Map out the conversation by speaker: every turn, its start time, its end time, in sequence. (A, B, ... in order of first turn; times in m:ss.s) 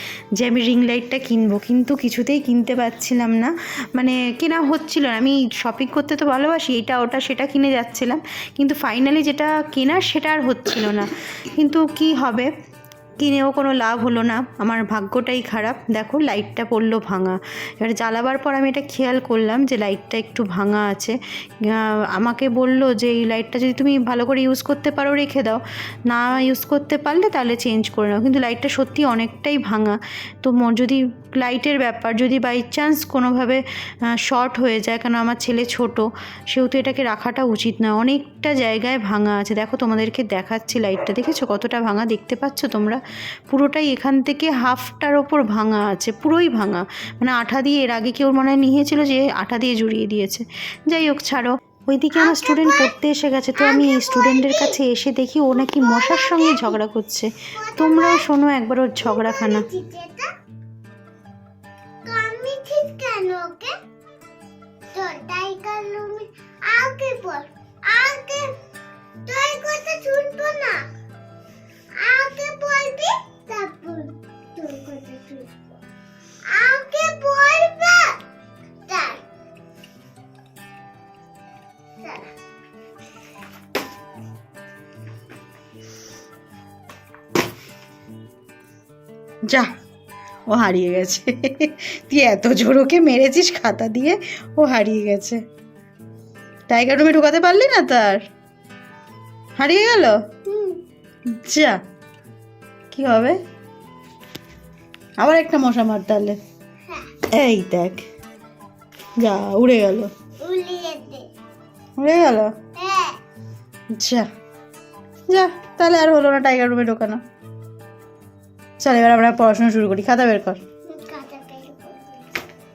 0:00.4-0:12.5 A
0:13.2-0:59.7 A
0:52.2-0:52.9 B
0:53.6-0:54.8 B
0:55.6-0:56.8 B
0:57.6-0:58.3 B
0:59.0-1:00.3 B
1:02.0-1:03.8 B
1:04.9-1:08.6 B
1:09.3-1:10.9 B
1:12.0-1:15.5 B
1:16.4-1:18.2 B
1:18.9-1:19.2 B
1:22.0-1:22.3 B
1:29.5-1:29.7 A
1:30.5-1:35.4 A
1:36.7-1:38.3 A
1:39.6-1:40.3 A
1:40.5-1:40.8 B
1:41.3-1:41.8 A
1:42.9-1:43.4 A
1:45.2-1:46.4 A
1:47.3-1:48.1 A
1:49.2-1:50.1 A
1:50.4-1:51.3 B
1:52.0-1:52.6 A
1:52.8-1:53.2 B
1:54.0-1:54.3 A
1:55.3-1:57.2 A
1:58.8-2:00.6 A
2:00.9-2:02.4 B